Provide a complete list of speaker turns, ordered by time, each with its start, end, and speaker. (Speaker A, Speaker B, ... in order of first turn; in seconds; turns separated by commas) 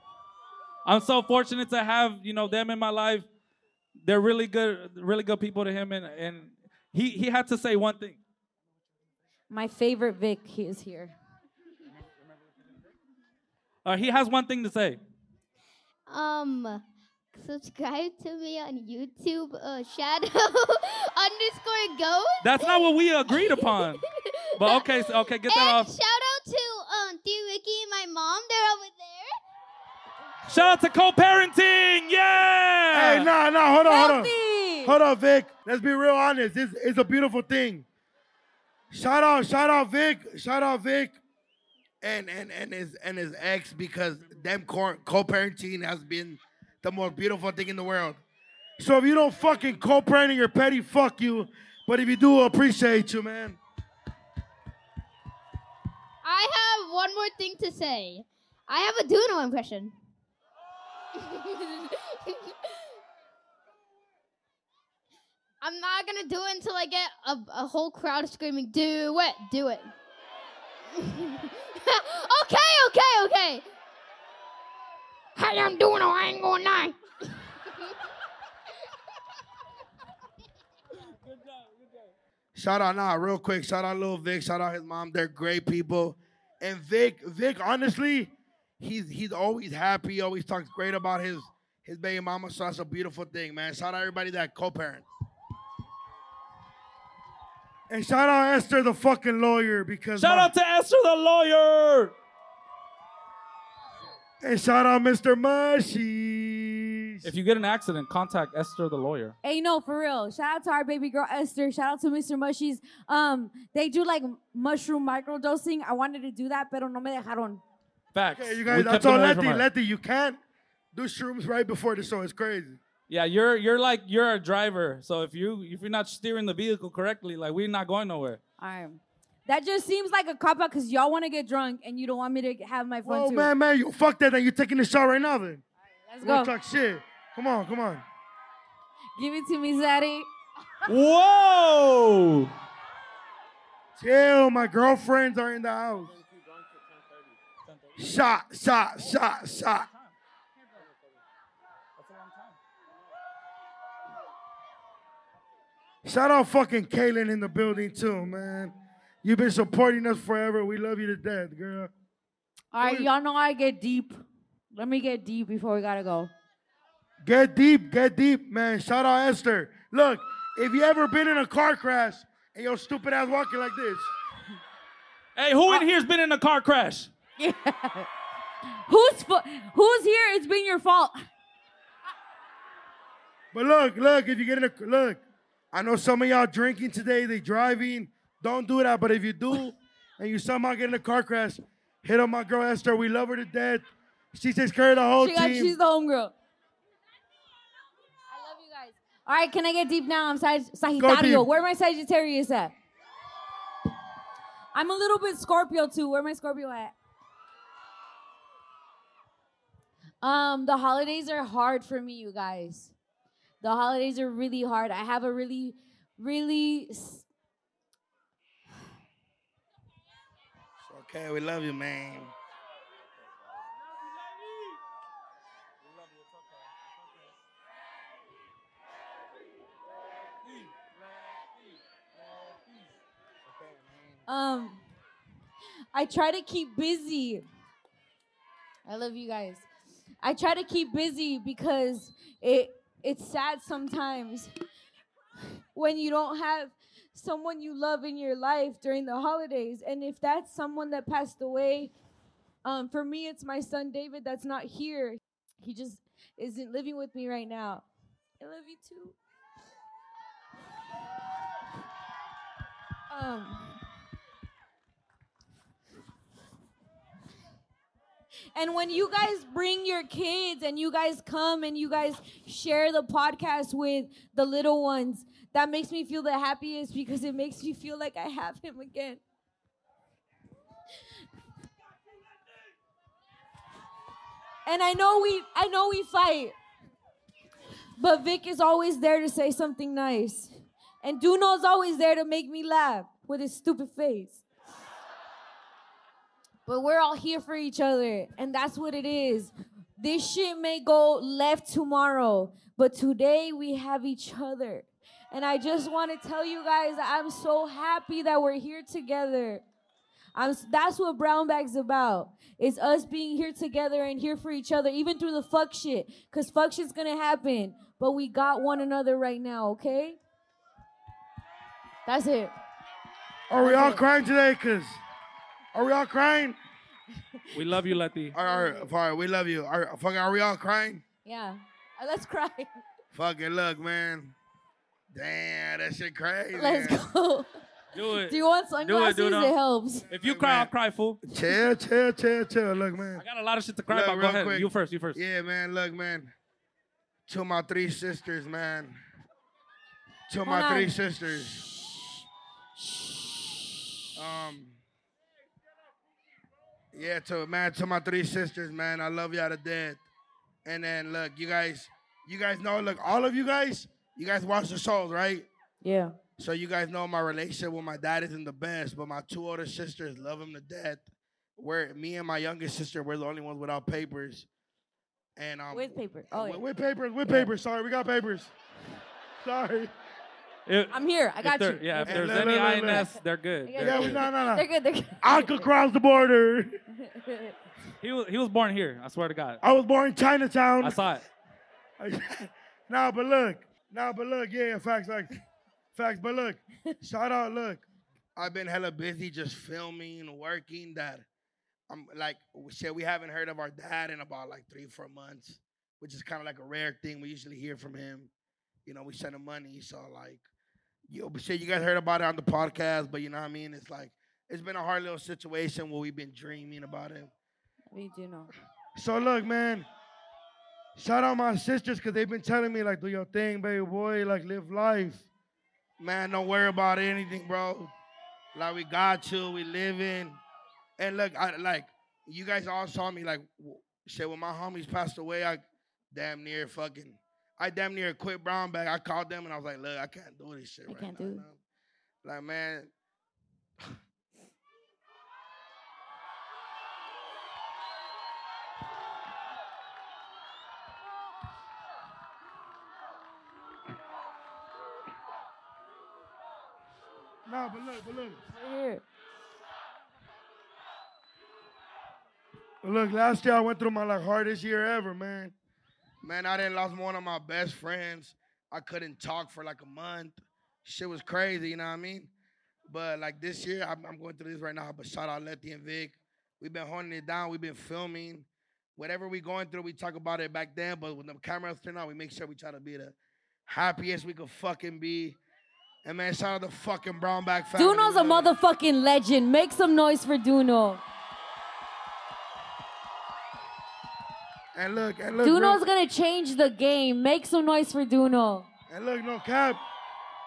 Speaker A: 0.9-3.3, Speaker A: 4.0-8.2, Speaker B: 9.5-11.1, Speaker A: 13.8-15.0, Speaker C: 16.1-16.8, Speaker C: 17.3-24.0, Speaker A: 22.4-24.0, Speaker C: 24.6-24.9, Speaker A: 24.6-25.9, Speaker C: 25.5-29.3, Speaker A: 30.5-33.3, Speaker D: 32.9-34.3, Speaker B: 33.9-35.0, Speaker D: 34.8-37.9, Speaker D: 38.9-41.2, Speaker D: 42.0-48.2, Speaker D: 48.8-53.6, Speaker C: 56.2-59.9, Speaker C: 61.2-62.4, Speaker C: 65.6-69.9, Speaker C: 71.0-73.6, Speaker C: 75.4-77.0, Speaker A: 81.3-81.7, Speaker D: 82.5-95.1, Speaker D: 97.9-100.5, Speaker A: 100.2-102.1, Speaker D: 104.4-107.3, Speaker A: 107.2-109.3, Speaker B: 109.4-117.6, Speaker A: 118.1-119.7, Speaker D: 118.3-120.4, Speaker D: 120.9-122.8, Speaker A: 123.1-128.4, Speaker B: 128.6-133.5, Speaker D: 133.1-135.6, Speaker B: 136.1-136.5, Speaker D: 136.2-138.0, Speaker B: 139.2-140.3, Speaker A: 140.9-142.5, Speaker D: 144.0-146.1, Speaker D: 148.0-149.9, Speaker A: 152.0-152.5, Speaker D: 156.1-161.9, Speaker B: 162.7-164.2, Speaker D: 162.8-163.1, Speaker B: 164.7-166.3, Speaker D: 167.2-174.1, Speaker A: 175.4-177.1, Speaker B: 177.4-178.1, Speaker B: 178.9-181.2, Speaker D: 183.5-185.2, Speaker D: 185.7-195.8, Speaker B: 195.2-196.3, Speaker B: 198.3-202.7, Speaker D: 201.0-201.5, Speaker B: 204.8-206.9, Speaker B: 210.2-212.9, Speaker B: 213.6-217.3, Speaker D: 220.8-222.3, Speaker B: 234.3-234.8, Speaker B: 235.9-237.4, Speaker B: 238.9-239.7, Speaker B: 240.2-244.5, Speaker B: 245.8-251.9, Speaker B: 252.7-257.8, Speaker B: 258.4-259.2, Speaker B: 263.1-263.8, Speaker B: 268.6-279.2, Speaker B: 284.7-286.6, Speaker B: 288.0-290.5, Speaker B: 291.0-294.4, Speaker B: 296.7-309.6, Speaker B: 310.4-320.2, Speaker B: 322.1-322.5, Speaker D: 323.5-325.0, Speaker B: 323.6-324.0, Speaker D: 325.7-326.6, Speaker A: 327.5-328.4, Speaker D: 328.3-331.0, Speaker B: 328.4-328.8, Speaker B: 331.2-332.8, Speaker D: 333.1-334.4, Speaker D: 335.1-337.0, Speaker B: 336.5-337.5, Speaker A: 337.9-339.6, Speaker B: 338.3-340.1, Speaker D: 340.1-340.7, Speaker A: 340.1-341.2, Speaker D: 341.3-343.2, Speaker A: 343.2-345.2, Speaker D: 343.9-346.3, Speaker D: 347.3-348.9, Speaker D: 350.3-351.6, Speaker B: 350.4-351.0, Speaker D: 354.2-354.8, Speaker D: 356.9-360.0, Speaker D: 360.6-365.5, Speaker B: 365.8-366.1, Speaker D: 366.4-371.0, Speaker D: 371.6-374.5, Speaker D: 375.4-378.5, Speaker B: 375.7-376.6, Speaker D: 379.4-379.9, Speaker A: 380.7-384.2, Speaker B: 380.9-383.1, Speaker D: 382.1-383.1, Speaker B: 383.7-385.7, Speaker D: 383.8-384.7, Speaker D: 385.2-386.7, Speaker B: 387.0-387.6, Speaker A: 388.0-389.6, Speaker D: 389.6-391.0, Speaker A: 390.8-391.2, Speaker D: 392.0-395.3, Speaker D: 395.9-397.8, Speaker D: 398.4-401.2, Speaker D: 401.9-408.3, Speaker D: 408.9-410.4, Speaker D: 411.1-417.3, Speaker B: 417.9-418.5, Speaker D: 419.0-419.9, Speaker D: 421.0-425.2, Speaker D: 426.0-427.9, Speaker D: 428.5-430.4, Speaker D: 431.0-441.6, Speaker B: 440.9-441.4, Speaker D: 442.2-442.9, Speaker D: 457.5-458.4, Speaker B: 458.5-459.0, Speaker D: 462.8-465.5, Speaker D: 466.2-472.3, Speaker D: 472.9-483.1, Speaker D: 483.7-485.4, Speaker D: 486.0-488.5, Speaker B: 487.8-491.0, Speaker D: 494.8-495.8, Speaker B: 495.4-498.7, Speaker D: 498.9-499.8